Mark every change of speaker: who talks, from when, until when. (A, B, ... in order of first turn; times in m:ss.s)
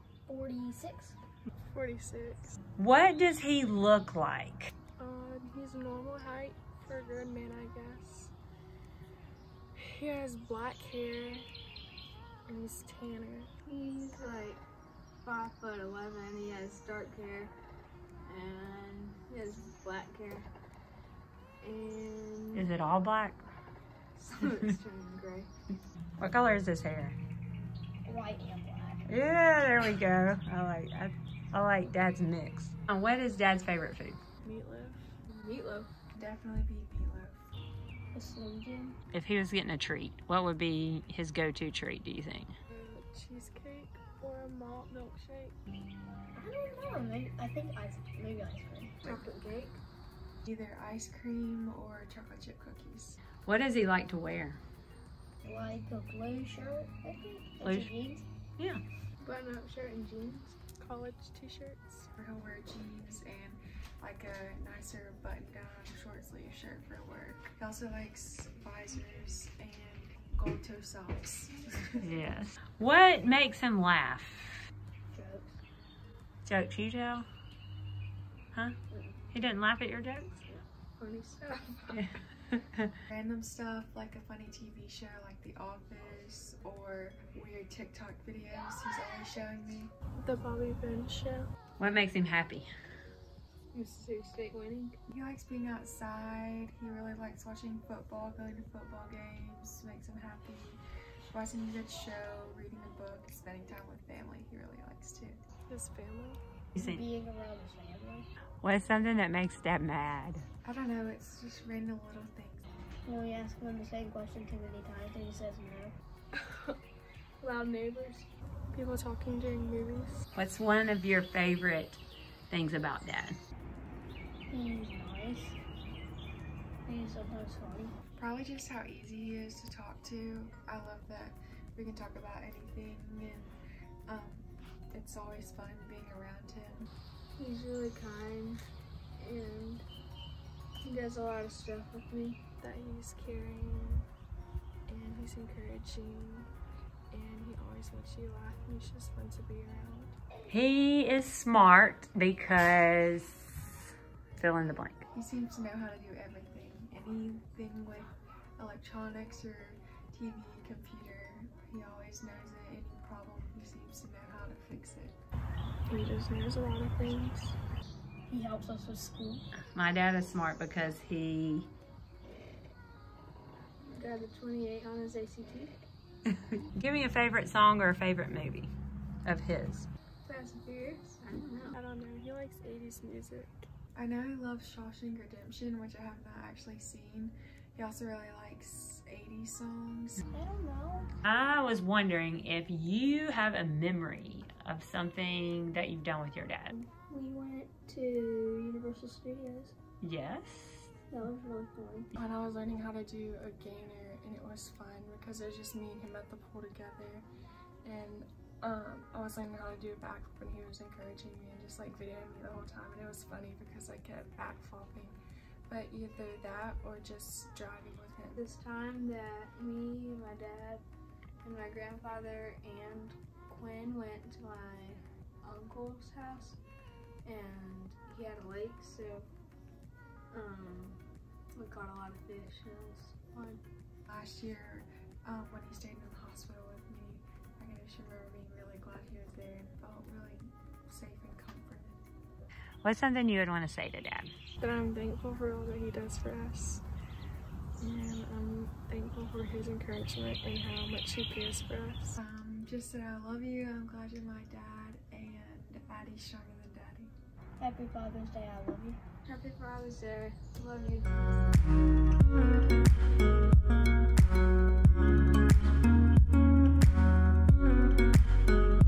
0:00.3-0:01.2 A
0:01.7-0:02.6 B
0:02.8-0:04.7 C
0:05.0-0:08.3 B
0:09.8-0:11.5 B
0:12.5-0:13.5 B
0:13.6-0:14.6 D
0:15.2-0:17.5 D
0:18.3-0:20.5 D
0:21.6-0:22.7 D
0:22.5-0:23.5 C
0:24.2-0:25.5 D
0:26.2-0:27.2 C
0:28.0-0:29.1 A
0:29.1-0:34.2 C
0:34.4-0:35.2 B
0:35.3-0:35.9 D
0:36.1-0:37.5 E
0:38.1-0:39.0 A
0:39.1-0:42.5 C
0:42.7-0:45.6 B
0:46.3-0:49.0 A
0:49.0-0:49.8 D
0:50.4-0:53.2 E
0:53.4-0:54.6 C
0:55.4-0:58.3 A
0:57.6-0:57.9 C
0:59.2-1:00.6 D
1:00.8-1:02.1 B
1:02.2-1:12.1 E
1:12.0-1:14.7 C
1:15.1-1:15.6 A
1:16.4-1:17.3 C
1:18.9-1:19.2 A
1:19.3-1:20.4 C
1:21.0-1:22.0 D
1:22.0-1:22.9 C
1:23.1-1:29.9 E
1:30.2-1:31.5 B
1:31.8-1:32.7 C
1:33.7-1:35.0 D
1:35.1-1:45.4 E
1:45.7-1:46.4 B
1:46.8-1:47.0 C
1:46.8-1:48.3 A
1:48.6-1:50.4 C
1:50.6-1:52.7 E
1:53.1-1:56.0 A
1:56.4-1:56.8 B
1:57.4-1:58.3 D
1:58.7-2:00.2 B
2:00.3-2:03.4 C
2:04.5-2:05.6 A
2:06.9-2:08.0 A
2:08.2-2:16.9 E
2:17.3-2:18.6 D
2:19.2-2:19.8 D
2:20.8-2:22.4 D
2:22.6-2:24.1 B
2:24.9-2:26.5 B
2:27.1-2:30.2 B
2:30.5-2:33.7 C
2:34.4-2:35.0 C
2:35.1-2:45.2 E
2:45.9-2:47.6 B
2:48.3-2:49.4 A
2:49.8-2:51.7 C
2:53.9-2:55.8 D
2:56.8-2:58.7 C
2:59.2-2:59.9 C
3:00.2-3:01.8 D
3:01.7-3:03.7 B
3:04.0-3:10.2 E
3:10.3-3:11.1 A
3:11.2-3:16.7 C
3:16.7-3:19.7 A
3:20.0-3:20.9 C
3:21.1-3:22.1 A
3:22.2-3:27.3 B
3:27.8-3:35.2 B
3:35.7-3:38.4 B
3:38.4-3:40.9 D
3:41.4-3:46.6 D
3:47.2-3:49.3 D
3:50.3-3:51.0 D
3:51.5-3:53.6 D
3:54.1-4:02.0 E
4:02.8-4:04.3 C
4:04.6-4:06.8 B
4:07.8-4:12.2 B
4:12.2-4:17.1 E
4:17.6-4:19.0 A
4:19.2-4:21.2 D